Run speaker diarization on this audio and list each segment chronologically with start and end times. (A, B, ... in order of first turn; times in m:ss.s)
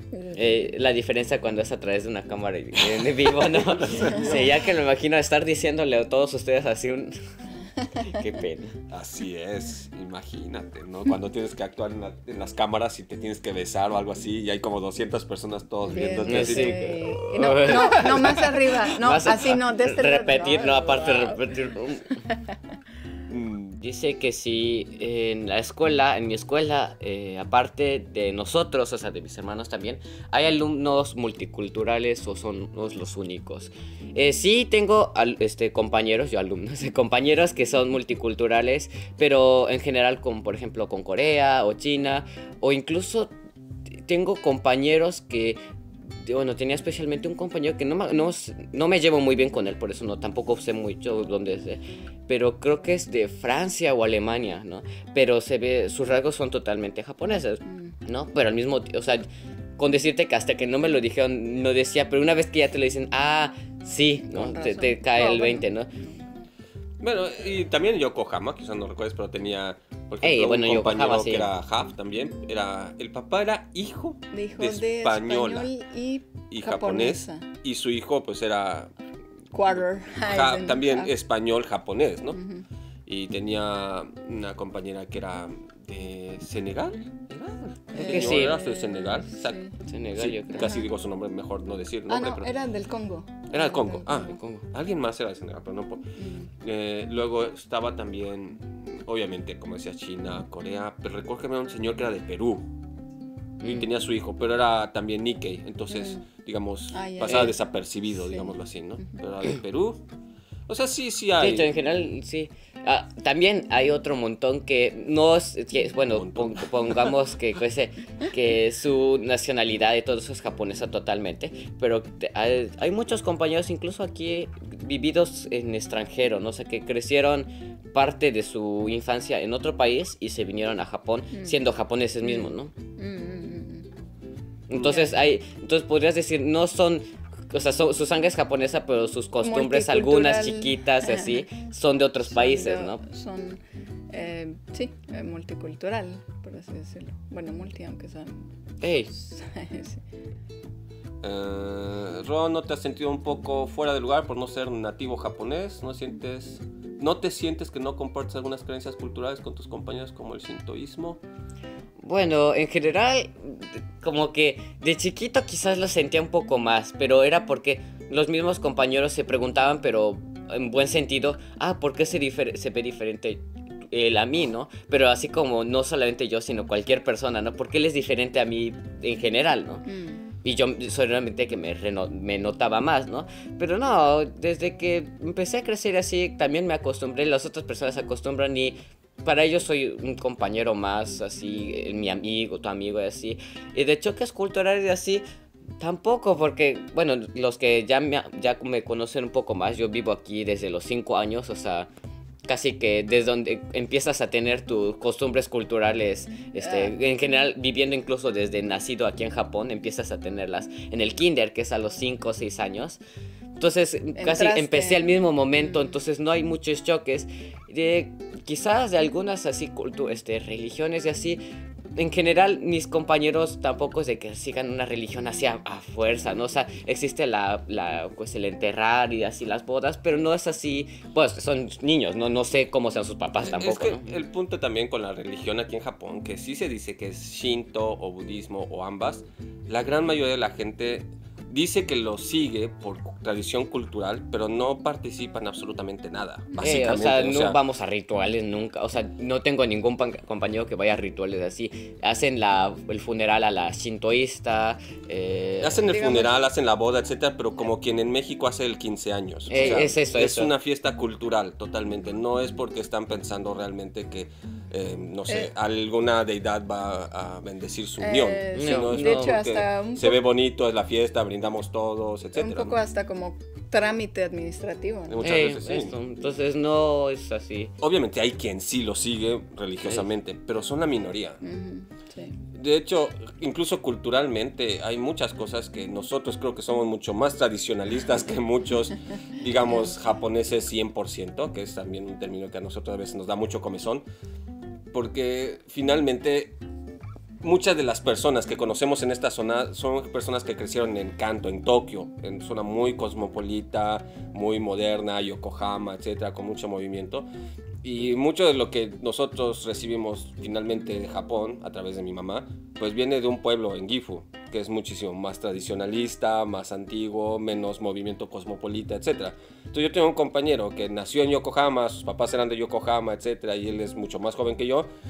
0:00.1-0:00.6 A
0:00.3-0:07.2 B
0:02.9-0:04.5 C
0:08.0-0:08.8 B
0:08.9-0:17.0 C
0:15.8-0:21.6 A
0:16.2-0:22.2 B
0:17.6-0:18.3 C
0:23.3-0:23.8 C
0:23.8-0:43.3 B
0:44.0-0:45.6 B
0:46.2-0:59.2 B
0:57.7-0:58.0 A
0:59.8-1:05.9 B
1:04.2-1:06.3 A
1:07.0-1:15.7 C
1:10.2-1:11.5 B
1:14.3-1:17.5 A
1:16.5-1:18.9 C
1:19.5-1:21.1 A
1:20.2-1:22.4 C
1:22.3-1:22.6 A
1:23.1-1:29.6 C
1:27.9-1:29.8 A
1:27.9-1:28.6 B
1:29.9-1:30.8 B
1:30.2-1:32.5 C
1:30.5-1:30.9 A
1:32.1-1:34.4 A
1:33.5-1:36.0 C
1:34.2-1:34.7 B
1:36.2-1:36.5 A
1:36.6-1:42.7 C
1:43.6-1:43.9 B
1:43.6-1:50.0 C
1:45.9-1:46.2 A
1:46.9-1:47.6 A
1:48.2-1:48.5 A
1:50.7-1:51.7 C
1:51.4-2:12.7 B
1:56.1-1:57.1 C
2:11.3-2:11.6 A
2:12.2-2:13.9 A
2:14.7-2:23.0 B
2:14.9-2:15.1 A
2:19.4-2:21.4 A
2:22.2-2:28.5 A
2:28.8-2:29.1 B
2:29.1-2:30.0 A
2:31.2-2:41.2 C
2:42.0-2:59.8 B
2:59.8-3:00.2 A
3:00.4-3:15.2 B
3:15.8-3:21.9 B
3:22.5-3:33.0 B
3:26.6-3:26.9 A
3:33.6-3:41.4 B
3:34.2-3:35.0 A
3:42.0-3:54.1 B
3:53.4-4:07.6 C
4:06.5-4:06.9 A
4:06.6-4:15.9 B
4:15.6-4:32.8 C
4:15.8-4:16.4 A
4:19.5-4:20.5 B
4:19.5-4:19.9 A
4:25.3-4:25.5 A
4:28.0-4:30.2 A
4:28.5-4:29.4 B
4:32.4-4:35.2 A
4:35.1-4:36.0 C
4:35.2-4:37.7 B
4:37.8-4:41.4 C
4:41.4-4:42.4 A
4:42.5-4:54.0 C
4:54.9-4:56.6 C
4:57.4-5:07.3 C
5:07.8-5:24.9 C